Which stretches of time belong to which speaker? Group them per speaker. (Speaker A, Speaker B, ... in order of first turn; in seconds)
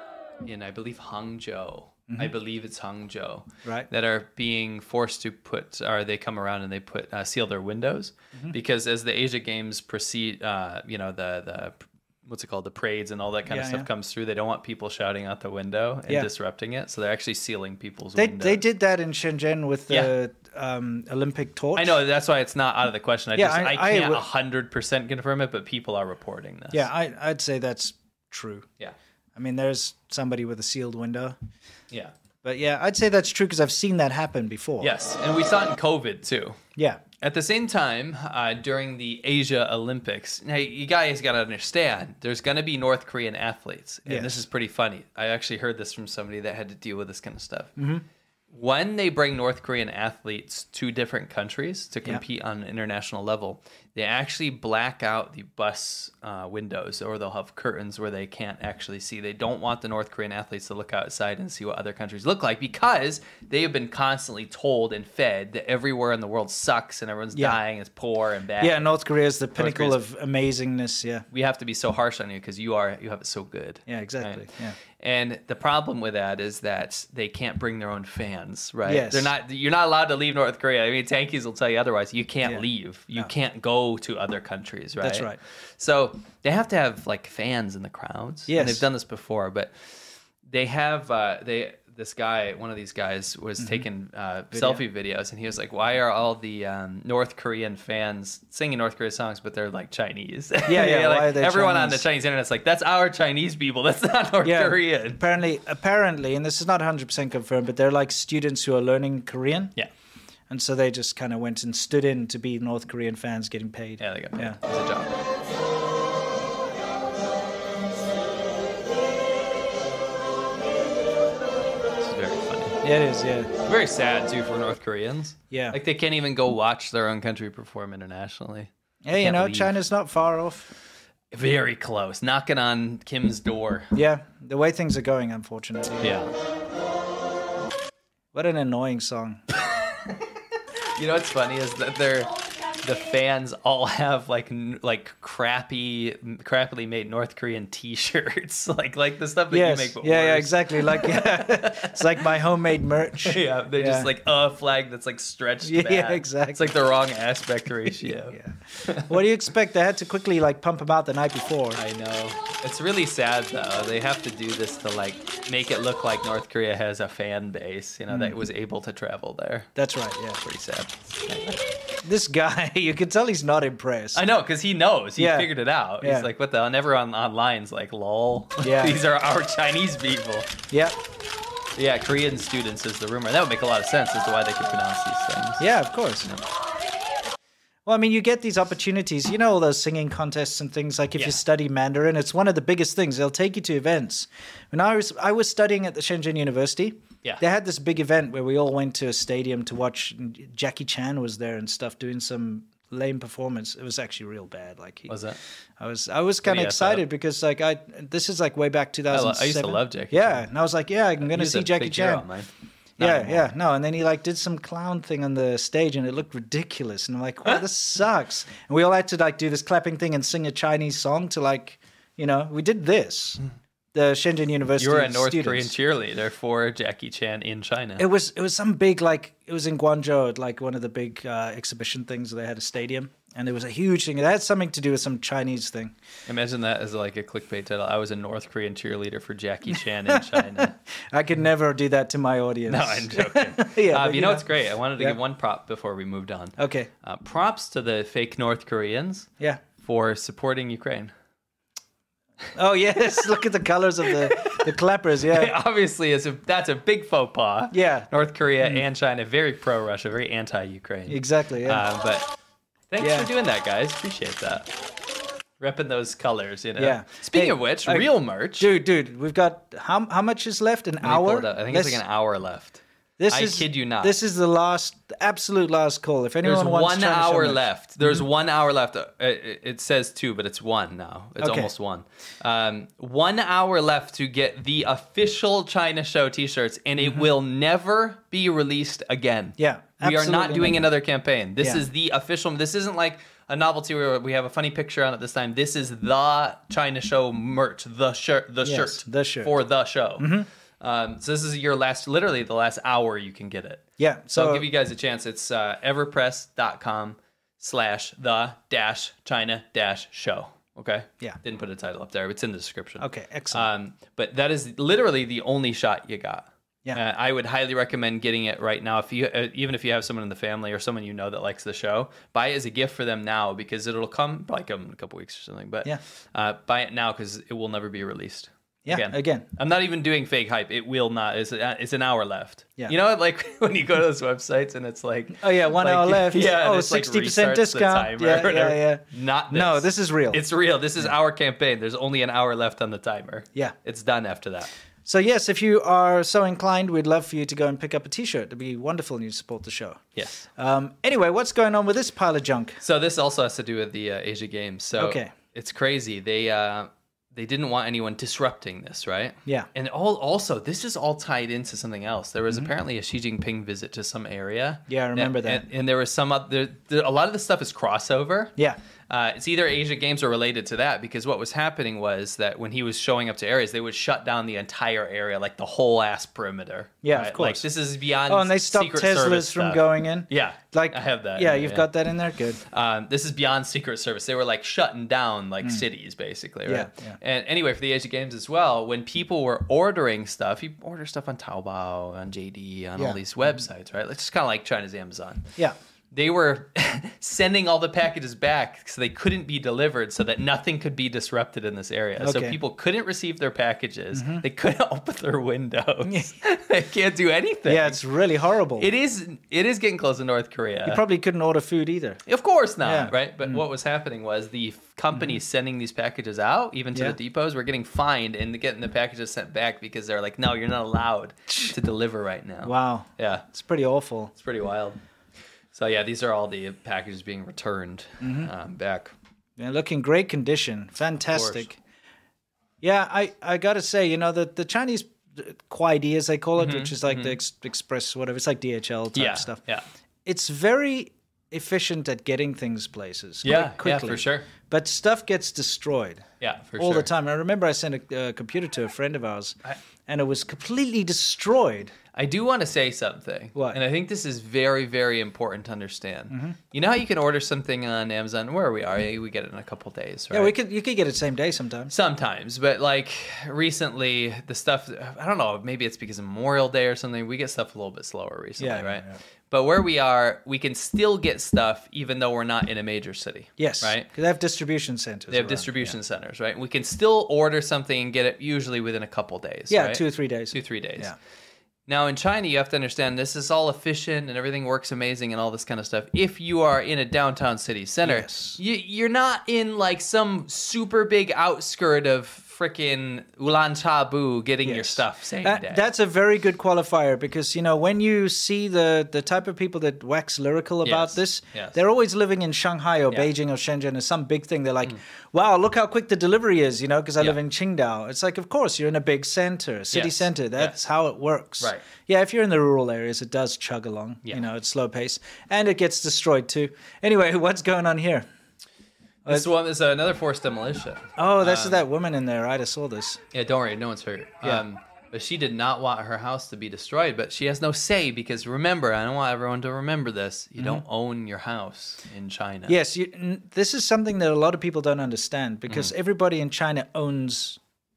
Speaker A: 0.4-18.6, 21.8-26.9, 34.8-36.6, 37.2-47.8, 48.5-68.9, 69.5-70.0, 71.3-74.4, 75.0-89.7, 90.4-105.2, 114.0-115.2, 122.0-122.8, 123.6-129.8, 131.3-133.9, 136.0-136.3, 140.9-152.2, 153.2-159.1, 161.8-169.7, 170.4-171.7, 174.1-180.6, 181.8-185.6, 205.1-205.4, 206.4-207.1, 209.1-210.5, 211.2-213.5, 224.8-228.1, 236.3-240.8, 242.7-249.3, 249.8-251.1, 254.1-254.7, 255.3-262.3, 262.9-264.7, 265.6-268.7, 271.0-274.1, 276.4-344.7, 350.1-350.5, 352.8-368.6, 369.1-381.9, 382.6-395.5, 396.1-408.0, 408.8-411.0, 412.3-423.5, 424.4-425.0, 425.7-429.1, 431.3-431.7, 436.6-437.4, 439.1-439.9, 443.4-444.5, 446.4-447.1, 452.1-460.6, 461.9-474.1, 475.3-481.1, 481.9-495.9, 500.9-501.8, 509.9-510.8, 511.6-511.9, 519.2-521.8, 523.3-532.8
Speaker B: 13.5-13.9, 18.2-22.0, 23.4-24.2, 26.7-28.7, 29.4-31.4, 32.4-34.9, 36.8-37.0, 44.1-44.4, 47.8-48.0, 68.6-71.3, 73.9-74.8, 78.9-79.3, 82.4-83.3, 85.0-85.4, 88.5-88.8, 93.6-93.8, 94.5-94.8, 100.7-102.0, 104.4-109.7, 110.5-114.6, 122.8-123.5, 125.5-125.8, 129.0-130.7, 133.9-136.2, 138.3-139.4, 149.5-154.1, 155.6-156.8, 158.0-161.8, 168.1-168.4, 169.8-170.4, 172.0-174.2, 175.2-175.5, 176.0-176.3, 178.6-179.0, 180.7-181.0, 185.6-186.3, 187.9-205.1, 205.8-212.3, 213.0-223.4, 223.9-225.7, 228.0-235.9, 240.1-245.2, 246.6-246.9, 252.6-255.5, 257.7-258.1, 261.1-261.8, 263.0-263.3, 266.8-272.0, 273.2-278.2, 281.4-281.7, 287.0-287.3, 289.6-290.9, 298.6-299.5, 300.2-300.5, 304.0-304.7, 313.0-313.7, 328.9-329.5, 335.4-340.4, 345.1-350.0, 350.6-352.8, 355.0-355.3, 364.9-365.6, 377.0-377.6, 378.2-382.6, 386.6-387.2, 393.0-393.6, 402.2-402.6, 404.1-404.4, 406.1-406.3, 407.6-408.9, 410.9-412.2, 412.8-413.6, 422.6-424.3, 428.2-428.5, 429.6-431.8, 432.8-439.6, 440.2-446.2, 446.8-451.9, 453.6-453.8, 456.3-456.6, 460.3-461.9, 468.6-469.2, 473.6-476.0, 479.7-481.1, 488.0-488.6, 494.6-518.3, 521.2-523.2, 530.6-530.8, 532.7-537.6